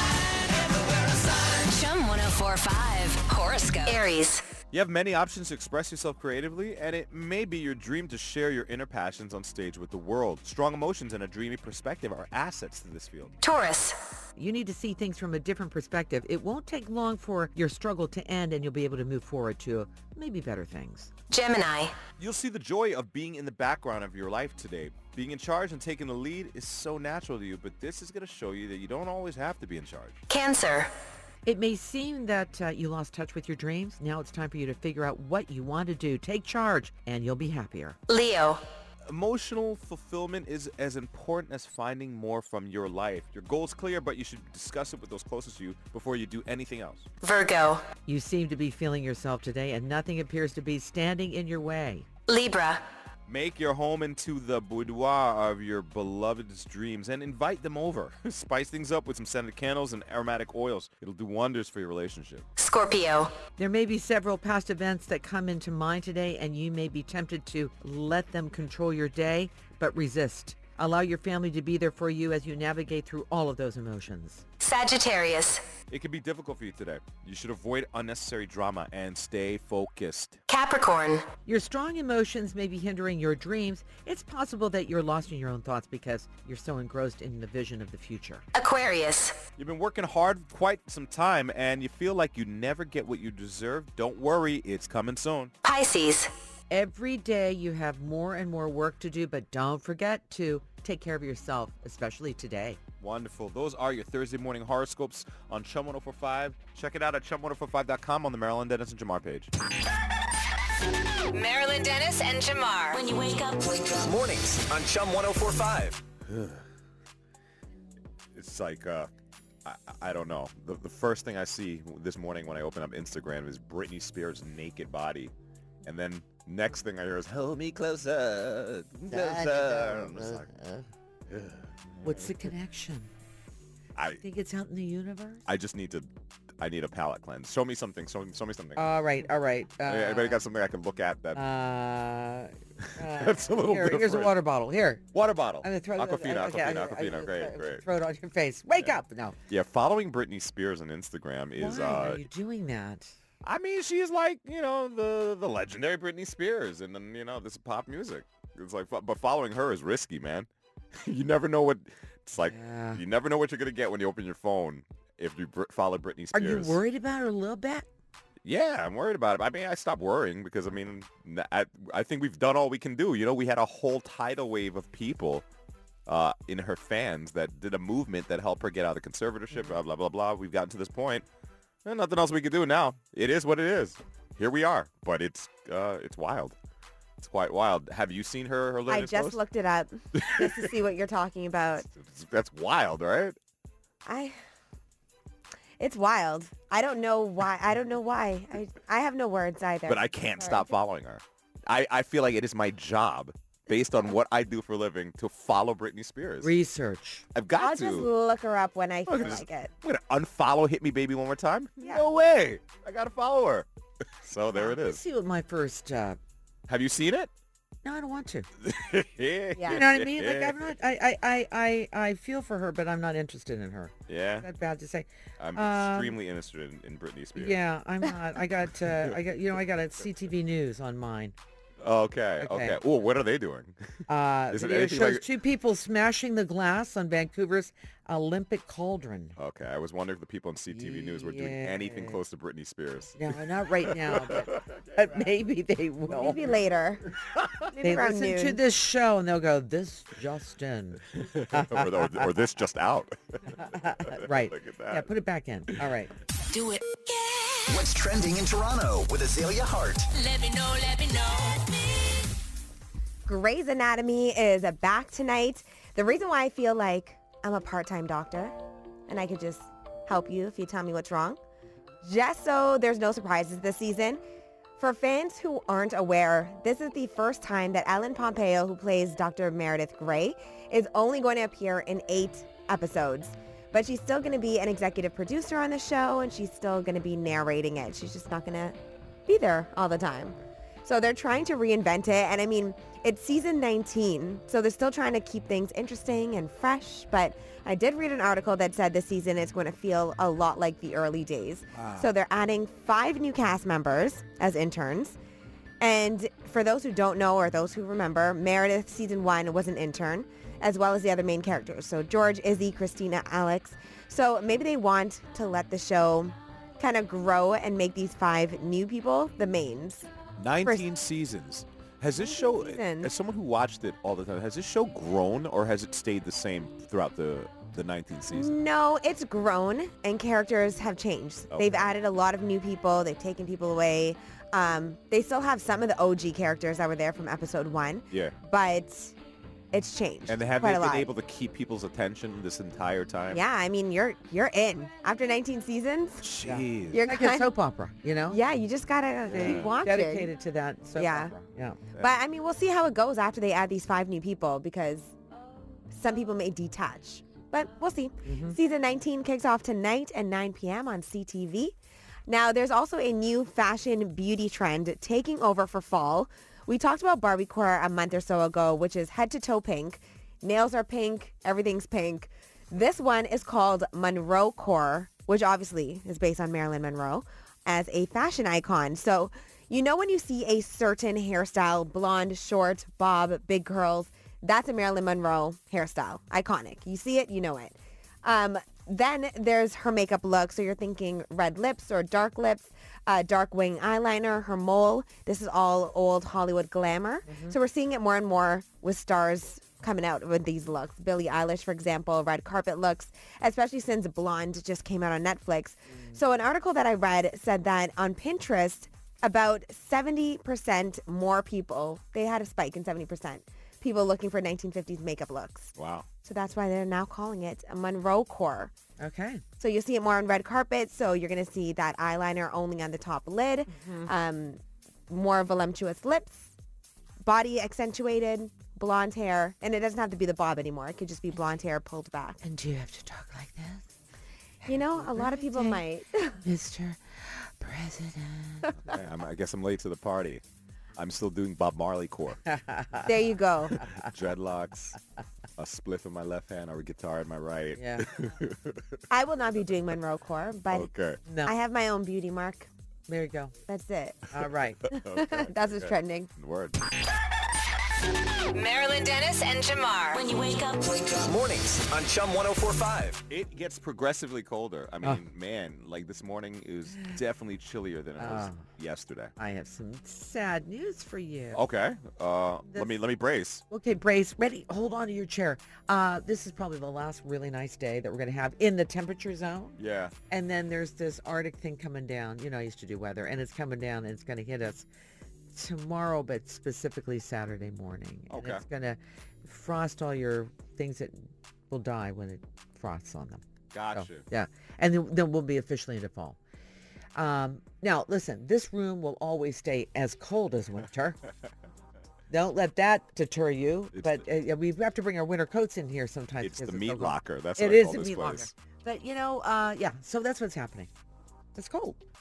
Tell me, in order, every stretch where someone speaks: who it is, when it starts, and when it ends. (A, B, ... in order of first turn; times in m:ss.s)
0:01.5-0:04.4 A
0:04.7-0:13.3 B
0:13.4-0:14.0 A
0:14.4-0:21.1 C
0:21.3-0:22.0 A
0:22.2-0:30.2 B
0:30.3-0:30.9 A
0:31.4-0:38.0 C
0:38.1-0:38.6 A
0:39.1-0:47.1 B
0:47.2-0:47.8 A
0:48.1-0:52.1 C
0:52.3-0:52.8 A
0:53.3-1:02.4 B
1:02.6-1:03.3 A
1:03.6-1:14.4 C
1:14.6-1:15.6 A
1:15.9-1:20.4 B
1:20.5-1:21.2 A
1:21.5-1:28.4 C
1:28.5-1:29.4 A
1:29.6-1:35.5 B
1:35.6-1:36.3 A
1:36.7-1:42.8 C
1:43.0-1:49.5 B
1:51.3-1:53.0 A
1:52.9-1:53.6 D
1:53.8-1:56.0 E
1:56.3-1:56.6 B
1:58.4-1:59.1 B
1:59.6-2:05.3 B
2:05.8-2:10.5 B
2:09.1-2:10.9 C
2:11.3-2:12.5 B
2:12.0-2:13.1 C
2:14.0-2:14.2 B
2:14.2-2:15.4 C
2:15.5-2:16.1 B
2:16.6-2:18.8 B
2:18.8-2:20.4 C
2:19.8-2:21.4 B
2:21.4-2:25.0 C
2:22.8-2:24.4 B
2:25.1-2:27.8 B
2:25.6-2:29.4 C
2:29.5-2:32.3 B
2:31.6-2:33.1 C
2:33.4-2:46.8 B
2:42.5-2:43.0 C
2:46.3-2:47.9 C
2:48.4-2:55.5 B
2:56.1-3:01.3 B
3:01.8-3:06.6 B
3:07.2-3:09.4 B
3:08.9-3:11.9 F
3:10.2-3:10.7 B
3:11.8-3:13.4 B
3:14.0-3:14.4 F
3:15.8-3:20.7 F
3:19.9-3:26.5 B
3:26.4-3:27.3 C
3:27.4-3:28.1 B
3:27.6-3:29.7 F
3:29.1-3:33.7 B
3:34.2-3:35.0 B
3:34.5-3:36.2 C
3:36.7-3:37.3 B
3:37.8-3:38.5 C
3:38.6-3:40.7 B
3:39.6-3:39.8 F
3:39.7-3:46.2 C
3:44.1-3:44.5 B
3:45.4-3:47.6 B
3:47.4-3:51.4 C
3:48.8-3:49.2 B
3:51.8-3:53.8 B
3:52.4-3:52.8 C
3:54.1-3:59.4 C
3:54.5-3:55.2 B
3:59.4-4:03.2 B
4:00.7-4:02.2 C
4:03.2-4:06.5 C
4:03.8-4:04.6 B
4:06.1-4:07.1 F
4:07.7-4:08.6 F
4:07.8-4:12.4 C
4:11.2-4:15.1 B
4:13.5-4:16.1 C
4:16.5-4:17.6 D
4:17.7-4:20.1 E
4:20.1-4:22.2 D
4:23.3-4:28.6 F
4:29.1-4:31.4 F
4:32.0-4:34.2 F
4:34.8-5:05.2 F
5:01.8-5:02.0 C
5:05.8-5:20.1 F
5:20.4-5:28.6 B
5:22.2-5:23.1 F
5:28.3-5:39.1 F
5:31.5-5:31.9 B
5:38.1-5:38.4 B
5:39.7-5:41.1 F
5:40.3-5:43.4 B
5:43.3-5:46.3 F
5:46.2-5:47.0 B
5:46.4-5:48.4 C
5:46.9-5:47.5 F
5:48.3-5:50.3 F
5:49.3-5:49.7 B
5:49.3-5:51.8 C
5:51.0-5:51.3 F
5:52.0-5:55.1 F
5:55.9-6:01.8 F
5:58.2-5:58.6 C
6:02.3-6:55.7 F
6:37.3-6:37.6 C
6:55.8-6:56.1 B
6:56.2-6:58.7 F
6:59.0-6:59.4 C
6:59.6-7:06.5 F
7:03.7-7:04.1 C
7:07.2-7:12.4 F
7:12.4-7:13.9 C
7:14.6-7:16.4 F
7:14.7-7:15.8 C
7:16.4-7:18.7 C
7:18.8-7:20.4 B
7:21.0-7:22.4 B
7:22.5-7:23.1 C
7:23.0-7:23.9 F
7:23.8-7:24.1 C
7:23.8-7:25.0 B
7:25.6-7:29.0 B
7:27.8-7:28.1 C
7:29.1-7:30.9 F
7:30.7-7:31.2 B
7:31.3-7:31.5 C
7:31.4-7:32.7 F
7:33.1-7:33.5 C
7:33.7-7:34.3 F
7:34.3-7:34.8 C
7:34.9-7:36.8 B
7:34.9-7:36.3 F
7:38.5-7:40.2 A
7:40.1-7:40.9 D
7:41.0-7:43.2 E
7:43.3-7:49.3 B
7:48.2-7:48.6 C
7:49.4-7:51.6 C
7:51.5-7:53.6 B
7:53.7-7:59.8 C
7:59.8-8:00.1 B
8:00.3-8:04.9 C
8:05.5-8:16.4 C
8:08.3-8:08.6 B
8:13.7-8:14.2 B
8:17.2-8:21.2 C
8:22.3-8:30.9 C
8:23.9-8:24.3 B
8:26.4-8:28.5 B
8:31.6-8:32.0 C